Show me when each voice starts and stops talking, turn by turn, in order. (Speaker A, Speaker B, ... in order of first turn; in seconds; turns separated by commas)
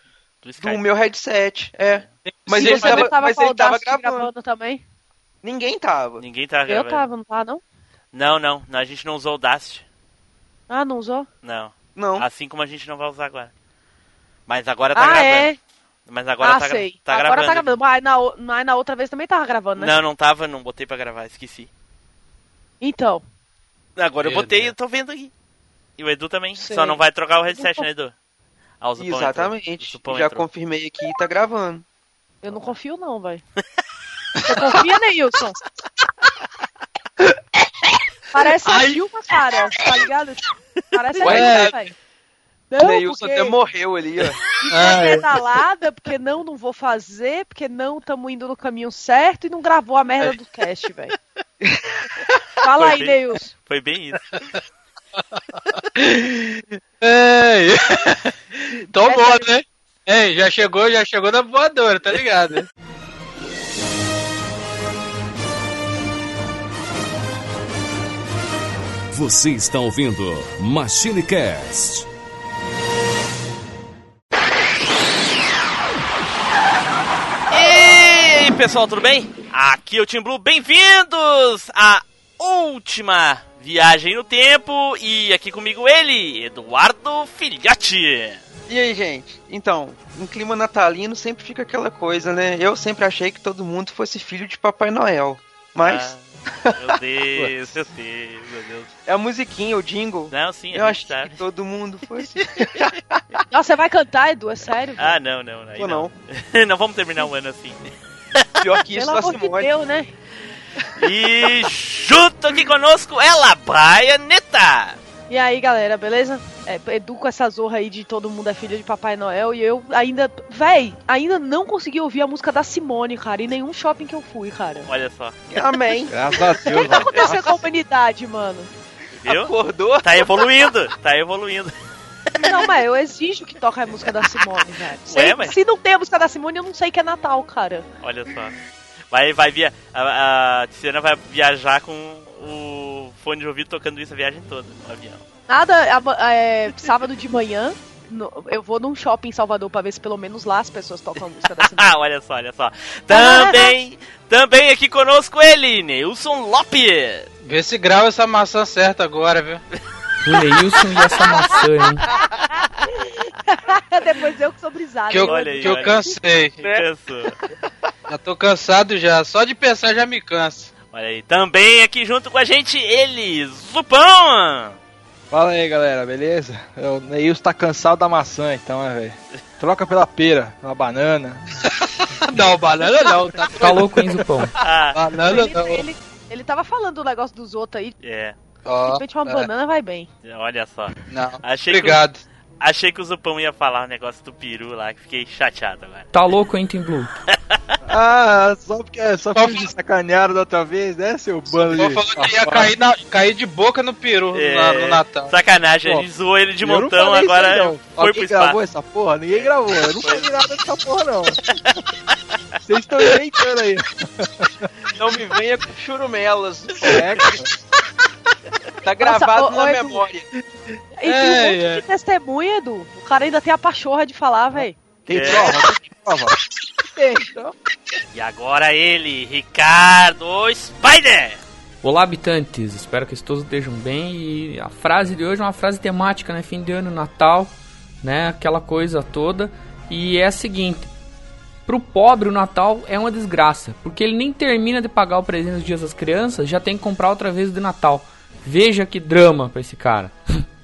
Speaker A: 0.4-0.8, Speaker B: 0.6-4.3, Speaker C: 2.3-3.1, Speaker D: 2.5-4.8, Speaker B: 5.4-6.2, Speaker A: 6.2-7.1, Speaker D: 6.7-7.6, Speaker A: 8.1-9.8, Speaker D: 10.7-11.3, Speaker A: 11.4-13.5, Speaker B: 12.0-12.3, Speaker A: 14.5-15.5, Speaker D: 14.9-15.6, Speaker A: 16.1-17.8, Speaker D: 16.4-20.0, Speaker A: 19.8-21.7, Speaker D: 22.8-23.2, Speaker A: 24.0-25.3, Speaker C: 24.2-24.7, Speaker A: 26.0-28.1, Speaker D: 26.6-27.0, Speaker D: 27.5-27.9, Speaker A: 28.8-30.5, Speaker B: 29.0-31.8, Speaker D: 32.4-33.4, Speaker D: 34.5-35.6, Speaker D: 38.3-41.9, Speaker C: 38.6-39.0, Speaker B: 41.2-41.7, Speaker C: 41.2-41.7, Speaker D: 42.7-43.6, Speaker B: 42.8-44.4, Speaker D: 44.6-51.1, Speaker C: 44.7-45.3, Speaker D: 52.6-53.5, Speaker A: 52.8-54.4, Speaker C: 55.9-62.7, Speaker D: 59.0-59.5, Speaker E: 69.1-72.1, Speaker A: 77.5-88.4, Speaker B: 88.7-96.1, Speaker A: 95.8-98.9, Speaker B: 99.1-103.0, Speaker A: 100.3-101.4, Speaker D: 103.5-105.2, Speaker A: 105.0-107.9, Speaker B: 105.8-106.1, Speaker B: 108.6-109.7, Speaker D: 108.9-110.1, Speaker A: 111.0-115.0, Speaker D: 115.3-124.9, Speaker A: 124.9-125.5, Speaker B: 125.5-126.1, Speaker F: 126.1-127.3, Speaker D: 126.7-128.7, Speaker A: 129.2-131.7, Speaker B: 129.3-130.3, Speaker D: 132.4-137.9, Speaker A: 135.1-135.6, Speaker A: 138.0-138.6, Speaker A: 139.1-145.2, Speaker D: 145.5-151.9, Speaker A: 151.6-157.3, Speaker D: 153.1-153.7, Speaker C: 157.4-159.6, Speaker G: 160.2-162.0, Speaker D: 162.1-166.1, Speaker C: 165.1-166.6, Speaker A: 165.2-166.1, Speaker A: 166.6-167.4, Speaker C: 168.1-170.7, Speaker A: 170.9-174.8, Speaker F: 175.3-181.4, Speaker C: 182.1-184.1, Speaker G: 183.6-184.5, Speaker A: 184.6-185.0, Speaker C: 184.9-185.9, Speaker D: 185.2-187.9, Speaker A: 188.0-188.4, Speaker C: 188.7-189.5, Speaker D: 188.8-190.1, Speaker A: 190.2-192.0, Speaker C: 191.1-192.2, Speaker A: 192.6-196.1, Speaker G: 196.1-197.1, Speaker F: 197.8-202.7, Speaker C: 199.3-199.7, Speaker C: 201.7-205.3, Speaker A: 204.3-208.6, Speaker F: 206.6-211.4, Speaker A: 209.3-210.3, Speaker F: 212.7-214.7, Speaker B: 215.0-217.3, Speaker F: 216.8-217.5, Speaker B: 218.8-220.3, Speaker D: 219.0-220.1, Speaker D: 221.0-224.8, Speaker C: 221.1-221.8, Speaker F: 224.5-227.5, Speaker A: 225.1-225.5, Speaker A: 228.1-231.4, Speaker G: 231.8-240.9, Speaker G: 241.7-250.2